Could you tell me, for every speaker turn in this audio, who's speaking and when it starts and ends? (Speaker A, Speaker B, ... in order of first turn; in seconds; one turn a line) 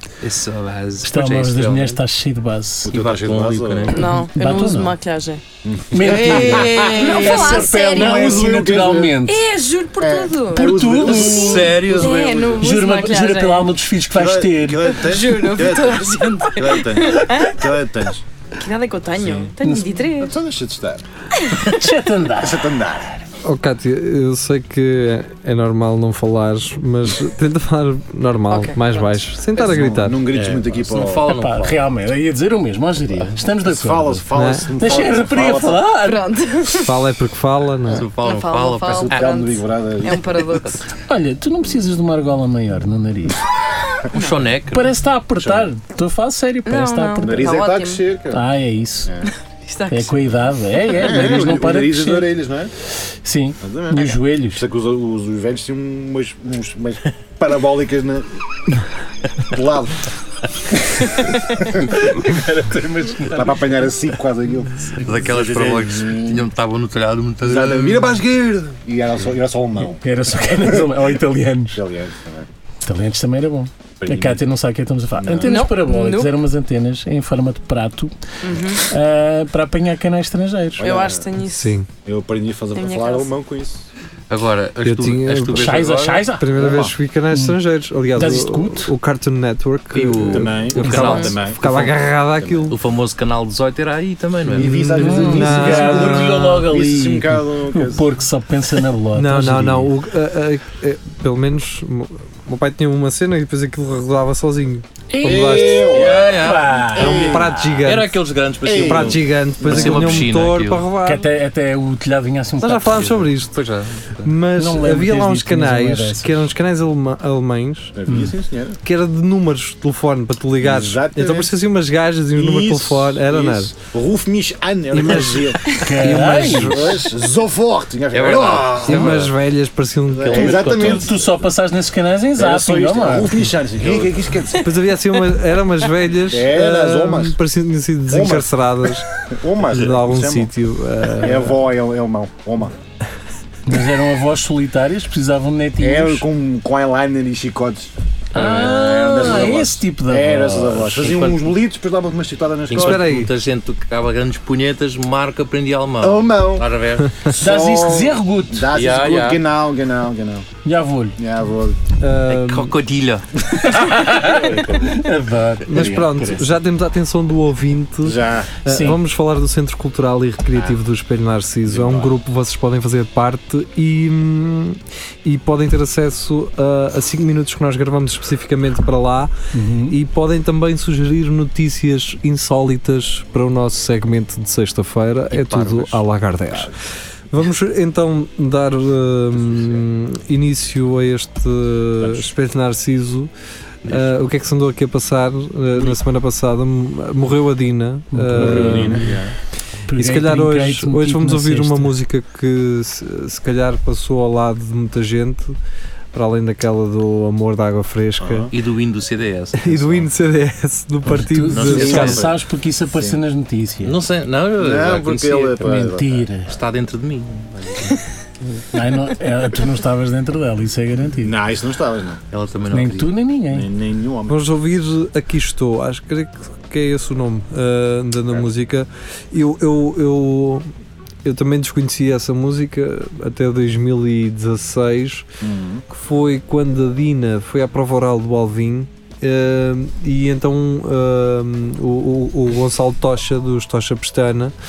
Speaker A: 0.2-2.0
Speaker B: 1.0-3.0
Speaker C: 2.8-4.0
Speaker A: 2.9-4.1
Speaker D: 3.9-5.4
Speaker B: 4.1-4.9
Speaker C: 5.6-7.4
Speaker B: 5.9-9.4
Speaker A: 6.1-6.4
Speaker D: 6.1-8.5
Speaker C: 7.9-9.2
Speaker D: 9.2-13.7
Speaker C: 10.0-12.1
Speaker B: 10.5-15.0
Speaker A: 11.2-12.6
Speaker C: 14.1-18.2
Speaker D: 14.9-17.7
Speaker D: 18.6-20.4
Speaker C: 19.2-19.5
Speaker B: 19.6-19.9
Speaker C: 20.2-21.0
Speaker D: 21.3-21.8
Speaker B: 21.6-22.8
Speaker C: 22.4-23.1
Speaker E: 23.4-30.2
Speaker D: 28.5-29.1
Speaker C: 29.6-31.3
Speaker A: 30.3-31.8
Speaker B: 31.3-34.2
Speaker C: 33.5-35.8
Speaker E: 34.3-34.8
Speaker B: 34.8-36.2
Speaker D: 35.9-36.9
Speaker E: 36.8-38.1
Speaker A: 37.9-39.5
Speaker D: 38.1-40.8
Speaker C: 38.9-40.3
Speaker B: 40.9-43.4
Speaker A: 44.1-44.9
Speaker B: 44.7-47.6
Speaker C: 45.4-45.7
Speaker D: 46.6-48.0
Speaker C: 47.2-48.4
Speaker B: 48.3-49.1
Speaker C: 49.0-49.3
Speaker D: 49.2-51.6
Speaker B: 49.9-52.3
Speaker C: 51.0-52.7
Speaker B: 53.2-54.6
Speaker C: 53.6-58.3
Speaker C: 59.4-60.1
Speaker C: 61.0-66.5
Speaker B: 62.2-63.5
Speaker A: 65.0-68.2
Speaker C: 67.4-71.1
Speaker B: 70.0-71.8
Speaker C: 71.7-72.5
Speaker B: 72.8-78.1
Speaker C: 74.0-74.4
Speaker C: 75.2-75.6
Speaker D: 75.4-76.3
Speaker D: 78.4-78.8
Speaker B: 78.8-80.9
Speaker C: 80.8-81.3
Speaker D: 80.8-81.8
Speaker E: 81.4-81.9
Speaker C: 82.0-83.8
Speaker D: 82.7-83.3
Speaker A: 84.3-86.3
Speaker E: 84.8-85.8
Speaker B: 85.5-86.4
Speaker E: 86.4-92.8
Speaker C: 86.5-87.0
Speaker B: 87.3-87.6
Speaker B: 88.1-88.9
Speaker A: 89.9-92.1
Speaker C: 90.2-92.7
Speaker D: 91.0-91.3
Speaker A: 92.7-94.9
Speaker C: 94.5-98.1
Speaker E: 94.5-96.7
Speaker B: 95.0-99.9
Speaker E: 99.1-106.0
Speaker B: 105.1-107.4
Speaker C: 105.2-106.4
Speaker A: 105.8-110.9
Speaker C: 106.9-107.5
Speaker E: 107.2-111.2
Speaker C: 108.6-110.4
Speaker B: 111.0-113.1
Speaker E: 112.6-113.6
Speaker A: 112.9-114.3
Speaker E: 114.2-118.0
Speaker B: 114.5-116.5
Speaker C: 118.0-118.8
Speaker B: 118.1-118.3
Speaker E: 118.8-123.7
Speaker C: 120.6-121.6
Speaker C: 122.3-129.3
Speaker E: 124.9-127.1
Speaker B: 125.7-126.9
Speaker A: 128.1-129.3
Speaker E: 128.8-130.9
Speaker C: 130.2-131.1
Speaker A: 130.2-131.1
Speaker B: 130.8-133.5
Speaker C: 132.4-134.8
Speaker A: 133.8-134.1
Speaker E: 134.6-139.1
Speaker C: 136.2-137.4
Speaker C: 138.1-140.5
Speaker E: 139.7-141.6
Speaker C: 141.1-142.8
Speaker B: 143.7-146.2
Speaker C: 145.8-153.1
Speaker B: 148.3-151.1
Speaker A: 150.9-151.5
Speaker A: 152.7-157.4
Speaker E: 152.7-153.3
Speaker C: 156.0-156.7
Speaker B: 157.3-158.7
Speaker C: 157.4-160.4
Speaker A: 158.7-159.4
Speaker B: 160.6-161.2
Speaker C: 161.2-161.8
Speaker E: 162.0-162.8
Speaker A: 162.3-163.3
Speaker B: 163.6-166.5
Speaker C: 164.1-165.0
Speaker E: 165.7-179.3
Speaker C: 168.0-168.5
Speaker B: 168.7-169.0
Speaker C: 171.6-172.2
Speaker B: 179.5-180.0
Speaker E: 179.9-186.8
Speaker A: 185.3-186.0
Speaker E: 187.3-193.3
Speaker C: 189.4-189.8
Speaker C: 192.0-192.3
Speaker E: 193.8-199.0
Speaker A: 193.8-194.1
Speaker B: 198.1-199.1
Speaker C: 198.3-199.3
Speaker B: 199.9-201.9
Speaker E: 199.9-205.6
Speaker E: 206.1-208.5
Speaker C: 208.2-208.5
Speaker A: 208.5-210.1
Speaker E: 209.6-212.2
Speaker B: 211.0-213.9
Speaker A: 211.5-212.3
Speaker C: 211.6-213.2
Speaker A: 213.8-215.7
Speaker C: 214.6-216.3
Speaker B: 215.6-216.5
Speaker A: 216.5-217.9
Speaker B: 218.7-221.3
Speaker C: 221.2-222.2
Speaker A: 222.3-223.1
Speaker B: 222.7-223.7
Speaker C: 223.5-224.4
Speaker E: 224.3-230.7
Speaker E: 231.2-235.3
Speaker C: 235.4-235.8
Speaker E: 235.9-244.5